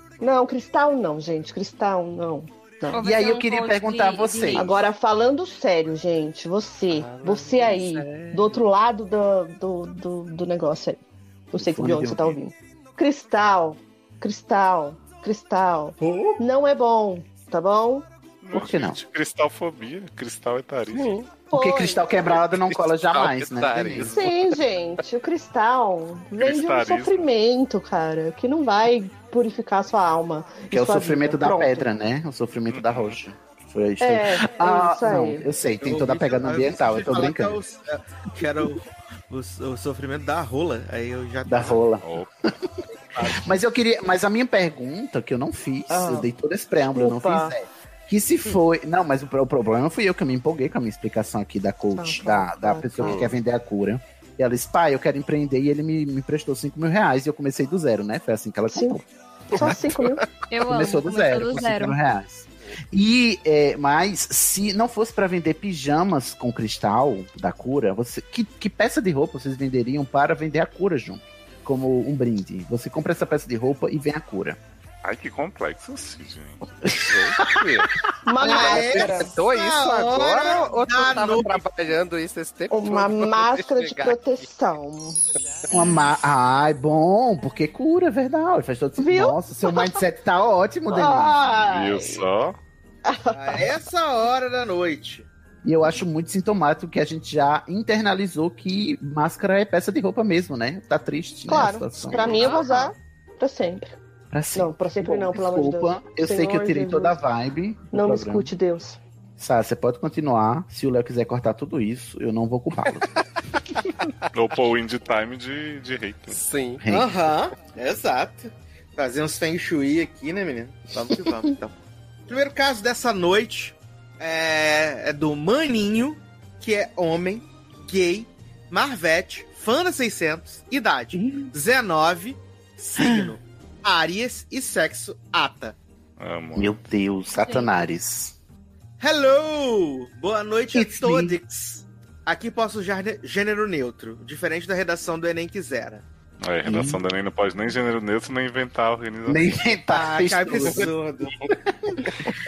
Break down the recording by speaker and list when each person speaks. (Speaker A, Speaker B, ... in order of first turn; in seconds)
Speaker A: 0.2-3.0, 4.5-18.1, 21.5-22.3, 24.0-31.9, 34.0-35.5, 45.9-46.3, 46.9-47.5, 51.9-53.3, 58.7-59.0, 59.5-60.2, 78.2-79.3, 82.7-85.2, 89.0-90.0, 90.9-92.2, 93.0-93.7, 101.5-104.0, 104.5-107.2, 107.9-109.0
Speaker B: 2.9-4.8, 60.5-62.0
Speaker C: 3.0-4.8, 11.5-12.4, 18.5-19.0, 21.5-24.1, 30.7-37.6, 41.4-42.7, 43.2-59.8, 60.7-74.6, 76.8-77.8, 85.7-91.9, 95.6-102.5, 104.3-108.5, 109.4-113.2, 116.8-117.1, 133.0-133.4, 136.6-138.3, 140.7-141.4, 146.6-147.0, 149.3-150.9, 151.4-152.1
Speaker D: 6.9-8.7, 20.9-21.3, 22.3-24.5, 53.0-53.3, 77.1-77.9, 78.5-84.5, 116.3-116.8
Speaker E: 18.4-21.2, 26.4-27.3, 32.7-33.2, 42.0-42.3, 75.0-76.6, 91.7-92.6, 114.3-116.4, 136.2-136.8, 146.4-149.8
Speaker F: 35.8-41.8, 43.0-43.5, 78.4-81.7, 93.3-95.3, 102.3-102.6, 116.9-121.7, 122.3-135.8, 139.0-146.0, 149.9-151.4